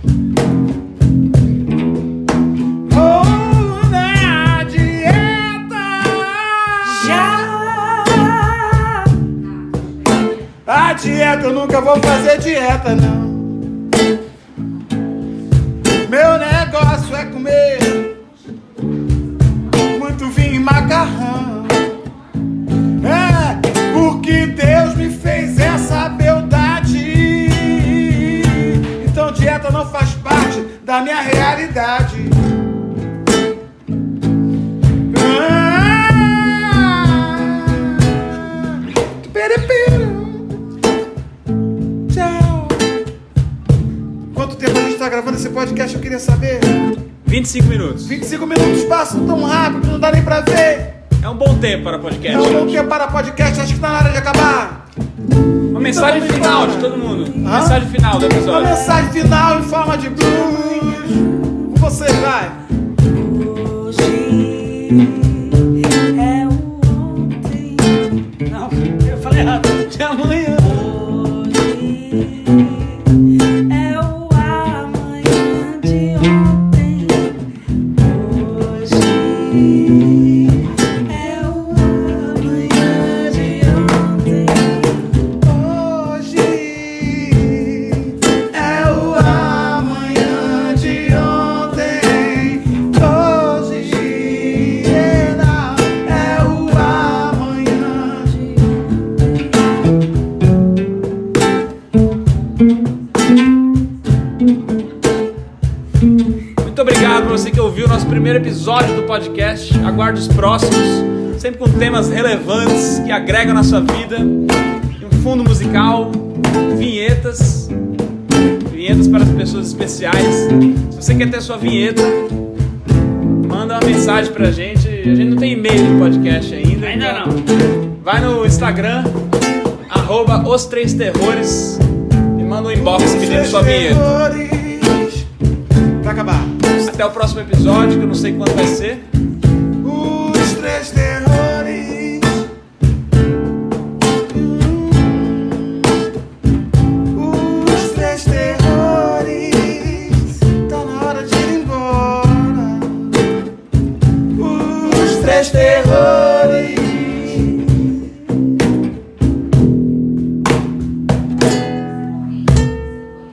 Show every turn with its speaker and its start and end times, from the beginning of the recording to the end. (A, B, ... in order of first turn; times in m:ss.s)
0:02.8-0:08.0 A
0:06.8-0:09.1 B
0:10.7-0:13.7 A
0:16.0-0:18.2 A
0:19.8-0:22.0 A
0:23.0-0:32.4 A
0:35.1-0:40.6 A
0:42.1-0:43.0 A
0:44.3-0:46.9 A
0:47.2-0:48.2 C
0:48.0-0:51.0 A
0:51.2-0:52.8 C
0:52.3-0:54.8 A
0:55.7-0:58.9 C
0:55.8-0:57.8 A
0:56.3-0:57.7 B
0:58.4-1:02.6 A
0:58.4-0:59.3 B
1:00.2-1:01.7 B
1:03.0-1:09.9 B
1:09.9-1:10.9 C
1:10.6-1:25.3 B
1:25.4-1:38.4 A
1:38.3-1:38.8 B
1:46.6-1:54.4 C
1:55.0-1:57.7 C
1:58.7-2:02.2 C
2:03.4-2:07.4 C
2:06.8-2:07.4 B
2:08.0-2:09.2 C
2:09.9-2:11.8 C
2:12.4-2:14.1 C
2:12.8-2:15.3 A
2:16.0-2:16.6 A
2:16.8-2:19.0 C
2:19.8-2:22.5 A
2:24.2-2:25.9 A
2:27.1-2:33.2 A
2:34.4-2:37.7 A